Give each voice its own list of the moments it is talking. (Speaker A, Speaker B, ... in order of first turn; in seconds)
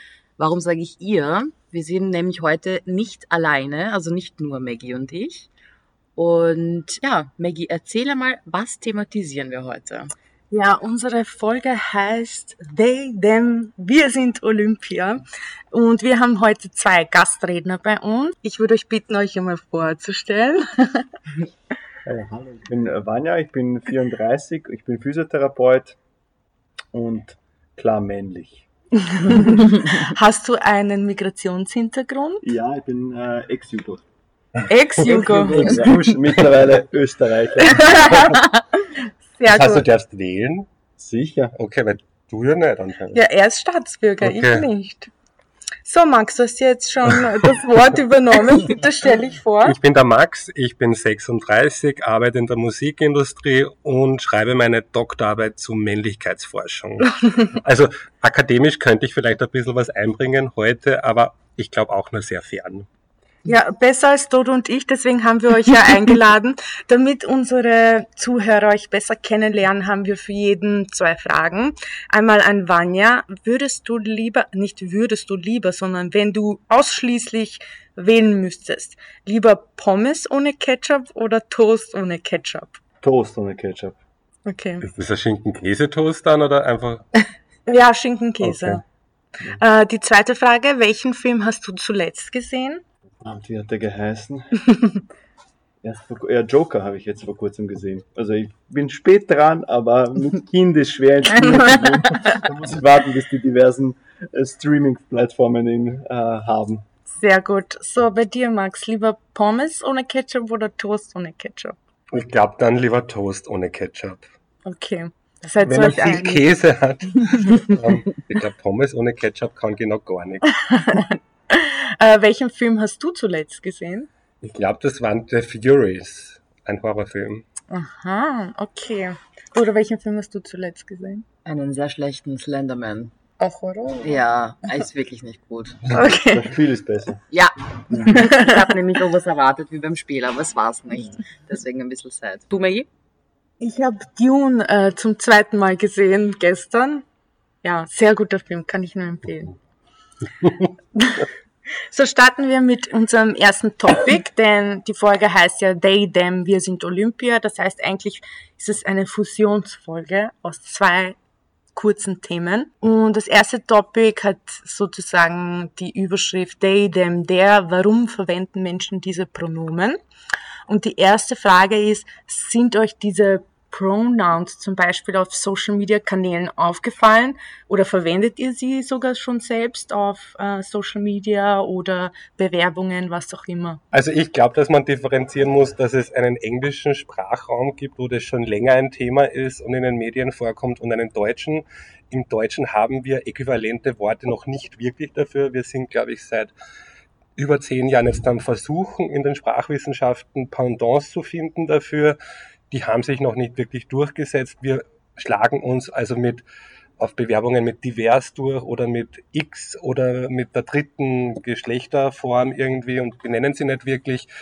Speaker A: 0.4-5.5, 6.2-10.1, 131.4-133.1, 134.0-136.0, 137.3-142.6
Speaker B: 10.5-21.1, 29.1-32.5, 34.7-35.7, 37.6-39.8, 43.1-45.1, 45.8-49.7, 57.2-57.5, 63.4-82.8, 84.5-84.8, 87.7-88.8, 89.5-92.8, 101.4-101.8, 107.1-111.8, 114.6-116.4, 120.6-124.1, 127.7-131.2, 133.4-134.2, 135.9-136.4, 138.1-138.7, 142.5-142.8, 143.6-147.0, 147.6-149.5, 150.9-151.3, 151.9-161.2, 161.7-170.0, 170.7-183.8
Speaker C: 22.0-26.0, 26.9-28.7, 32.4-34.0, 35.0-38.1, 41.0-41.5, 83.0-84.0, 93.2-94.6, 95.8-106.8, 136.2-137.2, 137.9-138.3
Speaker D: 35.0-36.8, 39.5-40.7, 41.5-43.2, 44.2-44.7, 49.6-62.9, 84.8-87.1, 88.4-88.8, 112.1-114.2, 115.6-120.6, 124.4-127.4, 183.9-196.5, 197.3-202.2, 202.7-206.4, 207.0-214.3